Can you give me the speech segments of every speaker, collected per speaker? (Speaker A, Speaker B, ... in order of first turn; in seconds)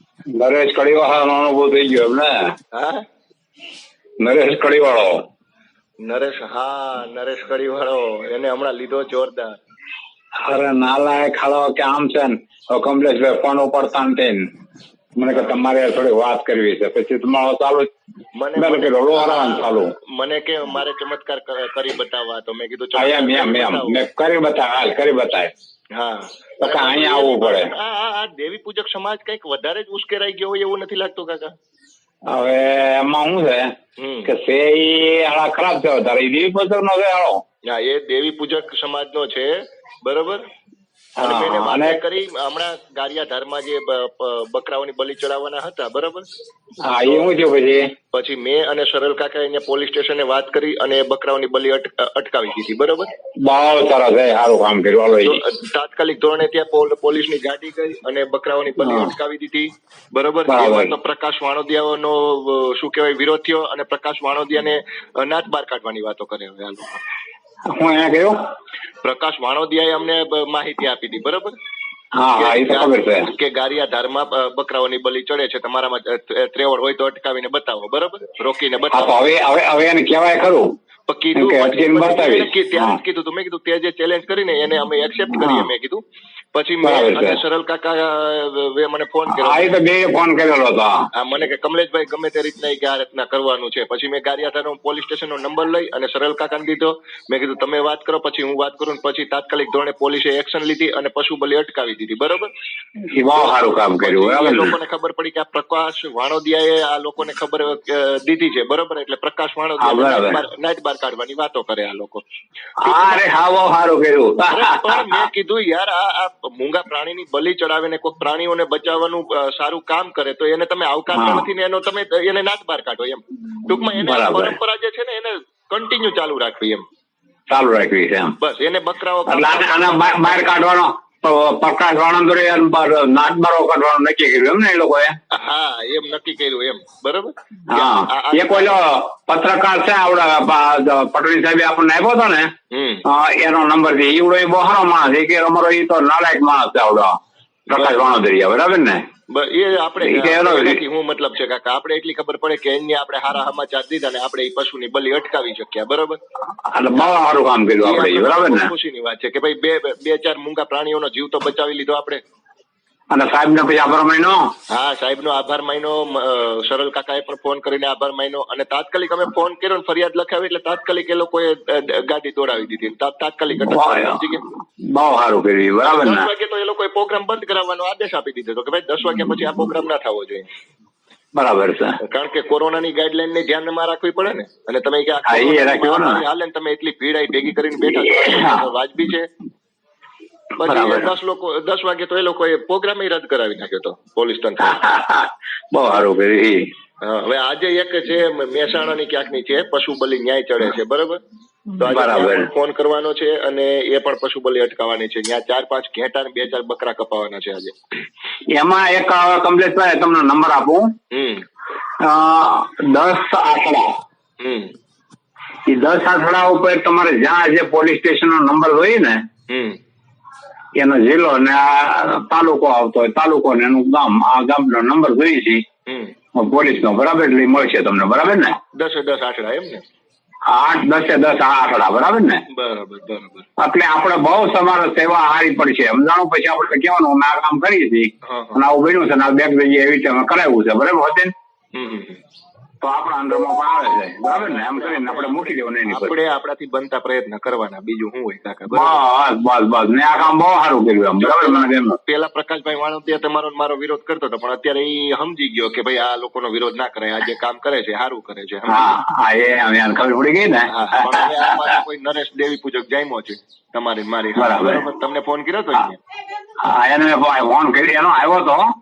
Speaker A: 0.3-2.4, 4.2-5.2, 10.4-14.5, 15.2-17.9, 18.6-19.9, 22.9-25.5, 26.6-27.7, 32.3-33.7, 34.2-37.4, 41.2-42.0, 46.8-47.9, 53.4-55.4, 58.8-59.1, 60.5-61.0, 67.7-68.4, 72.2-73.3, 78.9-80.7, 81.3-83.0, 85.3-85.7, 86.8-87.4, 89.3-91.0, 103.1-104.7, 109.8-110.4, 112.8-115.3, 121.1-121.5, 123.8-124.6, 127.5-128.3, 129.3-135.2, 137.7-142.5, 143.1-147.2, 147.7-149.0, 150.0-150.8, 156.7-158.7, 163.1-164.5, 173.7-174.2, 174.8-176.3, 181.3-182.0, 185.3-186.2, 187.9-188.7, 190.6-191.1, 194.6-196.7, 201.8-202.5, 208.5-210.9, 212.0-213.9, 215.7-219.2, 220.8-225.6, 226.3-228.6, 230.5-232.4, 233.6-241.3, 242.8-246.2, 248.7-252.0, 258.7-261.8, 264.4-264.9, 266.6-268.7
Speaker B: 2.7-3.0, 6.0-9.6, 15.3-15.6, 18.4-24.0, 25.9-31.6, 34.0-34.3, 37.7-40.4, 41.2-46.3, 47.0-47.4, 48.1-53.1, 55.2-67.0, 69.0-71.5, 72.4-79.2, 81.1-86.0, 86.5-89.8, 91.2-102.5, 104.0-112.2, 112.8-113.2, 114.5-126.8, 128.4-130.6, 135.3-138.8, 142.7-143.1, 147.8-148.1, 149.3-156.2, 156.9-162.2, 164.7-174.4, 175.8-180.5, 182.0-189.3, 190.6-194.8, 197.0-201.2, 201.8-207.8, 211.1-211.4, 214.4-214.7, 219.5-219.8, 225.9-226.1, 228.7-229.8, 232.5-233.5, 238.2-238.6, 241.7-242.2, 244.3-249.1, 251.2-259.0, 260.7-266.0